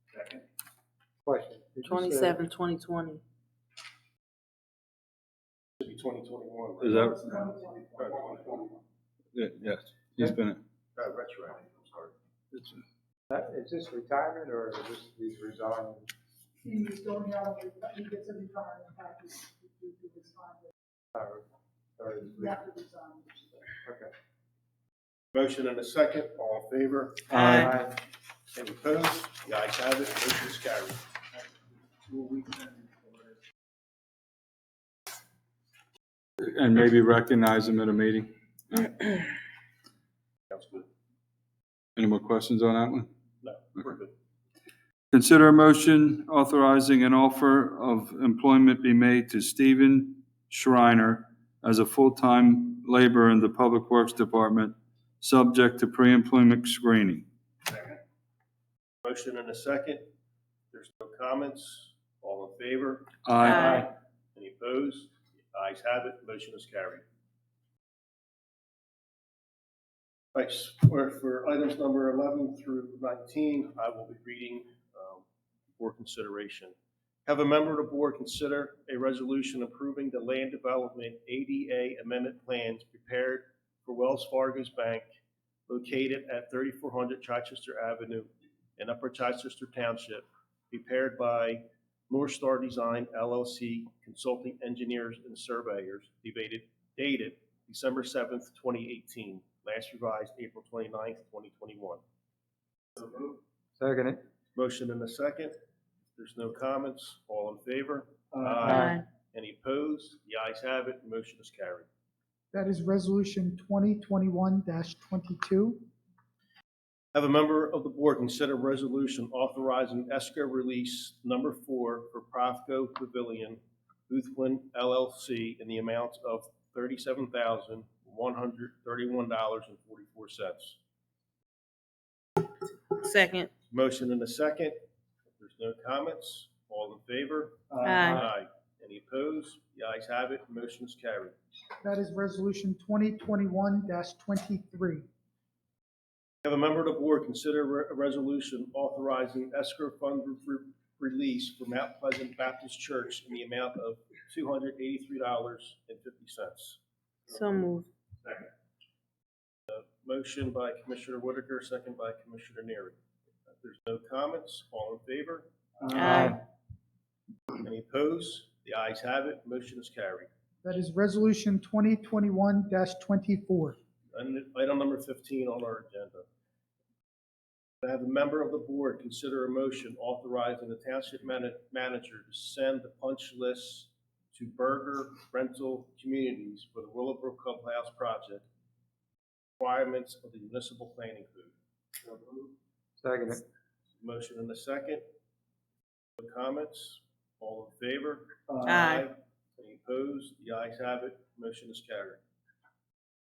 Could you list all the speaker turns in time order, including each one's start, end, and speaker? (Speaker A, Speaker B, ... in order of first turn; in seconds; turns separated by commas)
Speaker A: 1.2-2.4, Speaker B: 1.9-3.2, Speaker C: 5.8-7.1, Speaker D: 6.8-7.2, Speaker E: 6.9-8.1, Speaker C: 8.0-8.4, Speaker A: 8.3-8.7, Speaker D: 9.3-10.6, Speaker C: 10.9-12.1, Speaker D: 12.5-12.8, Speaker A: 13.3-16.1, Speaker E: 16.6-20.7, Speaker A: 21.1-21.4, Speaker A: 22.0-22.6, Speaker E: 22.3-23.5, Speaker A: 23.8-24.1, Speaker C: 25.3-27.3, Speaker A: 27.3-27.9, Speaker B: 27.3-27.7, Speaker C: 28.5-31.0, Speaker C: 32.1-32.6, Speaker D: 36.4-39.2, Speaker C: 40.5-40.9, Speaker D: 42.0-43.1, Speaker C: 43.4-44.1, Speaker D: 45.1-57.2, Speaker C: 57.6-58.0, Speaker C: 59.0-60.0, Speaker C: 60.7-67.0, Speaker D: 63.2-63.6, Speaker B: 63.4-63.9, Speaker C: 70.3-75.2, Speaker C: 75.8-76.7, Speaker C: 77.2-85.0, Speaker C: 85.7-102.0, Speaker A: 103.8-104.2, Speaker C: 104.5-105.5, Speaker C: 106.2-111.9, Speaker A: 108.3-109.0, Speaker B: 108.7-109.0, Speaker E: 112.5-115.8, Speaker C: 117.1-130.8, Speaker B: 132.9-133.5, Speaker C: 133.7-134.8, Speaker C: 135.4-141.3, Speaker A: 137.7-138.2, Speaker B: 137.8-138.2, Speaker E: 141.8-145.1, Speaker C: 146.4-156.8, Speaker B: 157.3-157.9, Speaker C: 159.7-163.0, Speaker C: 163.5-165.5, Speaker A: 165.8-166.4, Speaker B: 165.9-166.4, Speaker C: 167.6-170.3, Speaker E: 170.6-173.8, Speaker C: 174.1-176.2, Speaker C: 177.8-188.4, Speaker C: 189.6-191.5, Speaker A: 193.0-193.4, Speaker C: 194.0-195.0, Speaker C: 196.2-202.2, Speaker B: 198.6-199.1